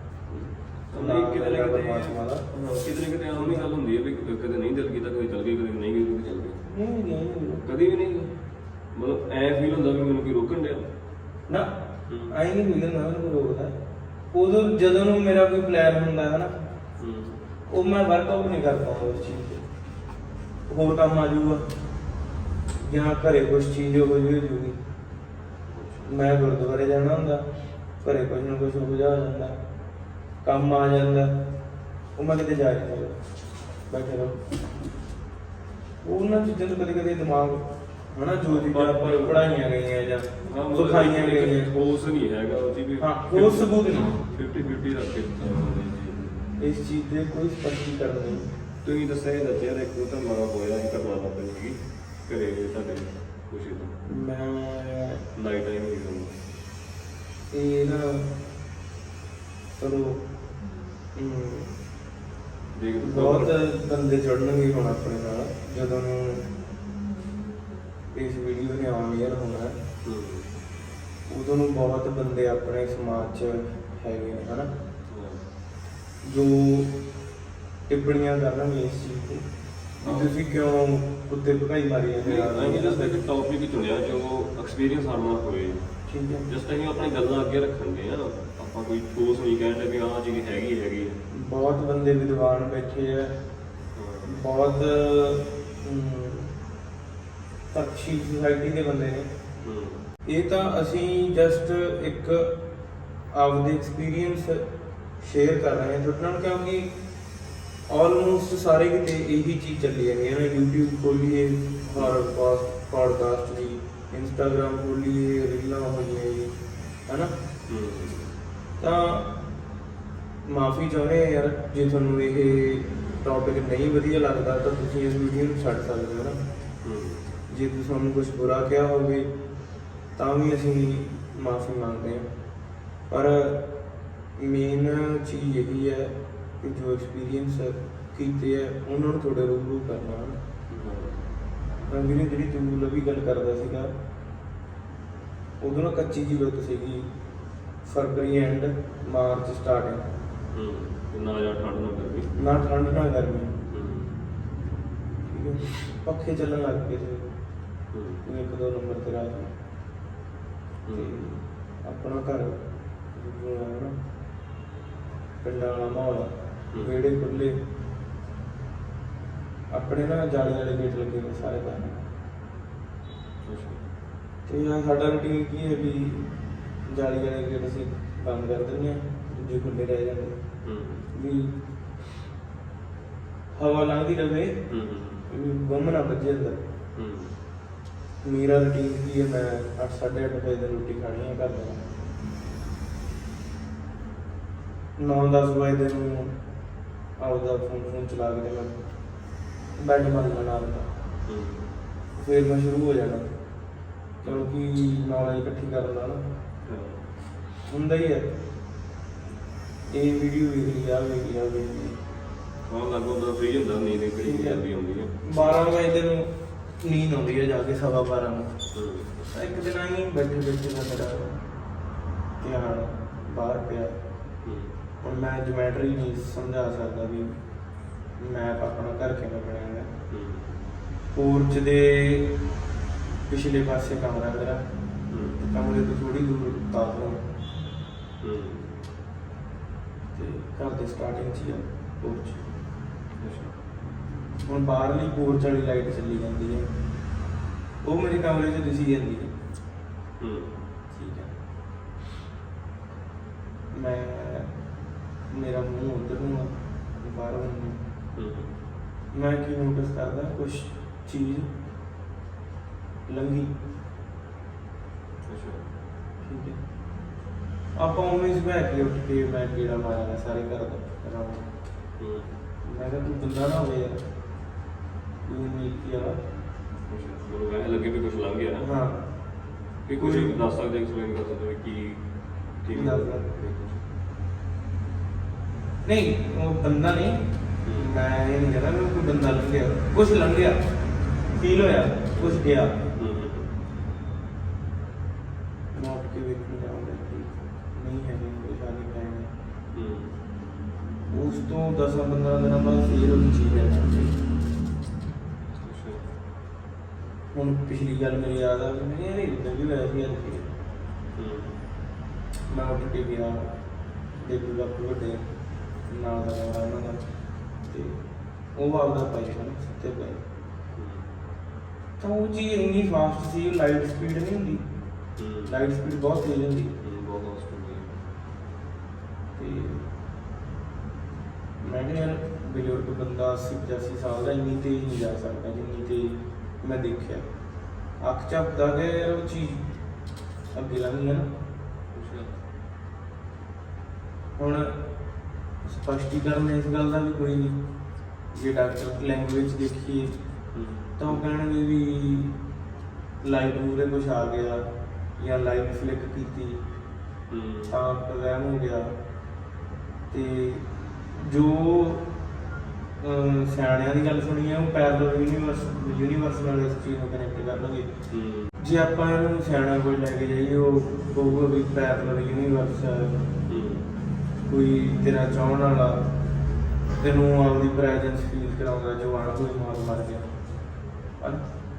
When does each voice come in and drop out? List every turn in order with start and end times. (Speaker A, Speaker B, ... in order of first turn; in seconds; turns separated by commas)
Speaker A: 0.3-2.4, Speaker B: 0.9-6.6, Speaker A: 3.3-3.7, Speaker A: 6.6-7.6, Speaker B: 7.6-8.3, Speaker B: 8.9-10.9, Speaker B: 12.1-12.3, Speaker A: 12.3-13.8, Speaker A: 14.3-16.5, Speaker B: 17.0-17.4, Speaker A: 17.7-19.6, Speaker A: 20.7-21.7, Speaker A: 22.8-24.8, Speaker B: 25.7-26.1, Speaker A: 26.1-27.5, Speaker A: 28.0-29.6, Speaker A: 30.4-31.3, Speaker A: 32.1-33.2, Speaker A: 33.9-34.4, Speaker A: 36.0-41.7, Speaker B: 38.5-39.5, Speaker B: 40.4-46.4, Speaker A: 43.0-44.2, Speaker A: 46.6-48.5, Speaker B: 48.8-53.9, Speaker A: 54.0-55.2, Speaker B: 55.3-56.4, Speaker A: 57.5-58.3, Speaker A: 59.8-60.2, Speaker A: 61.1-61.8, Speaker B: 62.7-63.5, Speaker A: 63.0-66.5, Speaker A: 68.1-69.8, Speaker B: 70.0-70.5, Speaker A: 71.3-74.7, Speaker B: 75.1-75.4, Speaker A: 76.2-76.9, Speaker A: 77.9-79.5, Speaker B: 80.0-80.3, Speaker A: 80.0-83.2, Speaker B: 82.2-85.8, Speaker A: 86.1-86.5, Speaker B: 86.5-91.2, Speaker A: 91.3-93.3, Speaker B: 93.9-94.4, Speaker A: 94.2-96.5, Speaker A: 97.7-99.3, Speaker B: 99.6-100.0, Speaker A: 100.2-102.5, Speaker A: 103.3-104.7, Speaker A: 105.2-106.9, Speaker A: 107.9-116.5, Speaker A: 117.1-117.3, Speaker B: 117.7-118.3, Speaker A: 118.8-119.3, Speaker A: 120.5-126.4, Speaker B: 126.8-127.2, Speaker A: 127.5-129.3, Speaker A: 130.2-132.3, Speaker A: 133.1-133.6, Speaker A: 134.4-140.4, Speaker B: 140.7-141.2, Speaker A: 141.9-143.9, Speaker A: 145.6-147.1, Speaker A: 147.8-150.1, Speaker B: 150.5-152.3, Speaker A: 152.3-153.5, Speaker B: 153.7-154.1, Speaker A: 155.3-157.3, Speaker B: 157.9-158.2, Speaker A: 158.2-159.5, Speaker B: 160.8-161.2, Speaker A: 160.9-162.6, Speaker A: 163.1-164.0, Speaker A: 165.4-167.6, Speaker A: 169.7-172.0, Speaker B: 173.4-173.8, Speaker A: 174.5-176.3, Speaker A: 176.9-180.4, Speaker B: 180.6-181.1, Speaker A: 181.1-181.5, Speaker A: 183.5-184.6, Speaker B: 184.7-185.2, Speaker A: 185.3-186.6, Speaker B: 186.9-187.3, Speaker A: 188.2-191.8, Speaker A: 195.0-196.3, Speaker A: 197.2-198.8, Speaker A: 199.8-200.9, Speaker B: 201.2-201.6, Speaker A: 202.2-203.3, Speaker B: 204.2-204.5, Speaker A: 204.2-206.3, Speaker B: 206.6-207.0, Speaker A: 207.7-208.3, Speaker A: 209.9-212.0, Speaker B: 212.6-215.7, Speaker A: 214.2-214.6, Speaker A: 215.2-218.5, Speaker B: 218.7-219.3, Speaker A: 219.3-221.4, Speaker A: 222.4-224.0, Speaker B: 224.4-224.7, Speaker A: 225.0-227.4, Speaker A: 228.2-229.9, Speaker B: 230.1-230.6, Speaker A: 231.1-232.3, Speaker A: 233.3-234.6, Speaker B: 235.1-235.4, Speaker A: 235.4-237.2, Speaker B: 238.2-238.7, Speaker A: 240.1-242.4, Speaker B: 243.2-243.5, Speaker A: 244.3-246.7, Speaker A: 247.8-249.3, Speaker B: 250.2-250.5, Speaker A: 250.9-251.3, Speaker A: 253.7-254.5, Speaker A: 255.3-257.8, Speaker B: 258.1-258.5, Speaker A: 259.1-261.5, Speaker A: 263.1-263.5, Speaker B: 265.2-265.6, Speaker A: 266.2-266.6, Speaker A: 267.8-271.5, Speaker B: 272.0-272.3, Speaker A: 272.6-274.0, Speaker A: 275.2-276.2, Speaker B: 276.9-278.7, Speaker A: 278.6-279.0, Speaker B: 279.9-282.0, Speaker A: 280.0-280.4, Speaker B: 282.6-283.8, Speaker A: 282.7-283.2, Speaker A: 285.8-290.6, Speaker B: 287.6-287.9, Speaker A: 291.3-292.8, Speaker B: 292.1-293.5, Speaker A: 295.7-299.3, Speaker B: 299.7-300.1, Speaker A: 301.1-304.1, Speaker B: 305.5-306.0, Speaker A: 307.3-310.4, Speaker B: 311.1-311.6, Speaker A: 312.5-313.5, Speaker A: 314.2-315.3, Speaker A: 315.9-317.0, Speaker A: 317.6-318.0, Speaker A: 318.5-320.2, Speaker B: 320.7-321.0, Speaker A: 322.0-324.6, Speaker B: 325.2-325.6, Speaker A: 325.5-326.7, Speaker B: 326.8-327.9, Speaker A: 329.4-329.8, Speaker A: 331.6-337.3, Speaker A: 338.0-339.6, Speaker A: 340.5-341.3, Speaker B: 341.9-342.4, Speaker A: 344.4-344.8, Speaker A: 345.6-347.6, Speaker A: 348.3-350.1, Speaker B: 350.5-351.2, Speaker A: 351.0-352.3, Speaker A: 353.2-354.6, Speaker A: 355.2-356.6, Speaker B: 357.3-357.8, Speaker A: 357.7-358.9, Speaker A: 360.1-362.1, Speaker A: 363.0-367.9, Speaker B: 368.1-368.5, Speaker A: 368.6-373.2, Speaker B: 373.5-373.9, Speaker A: 374.5-376.1, Speaker A: 377.0-380.3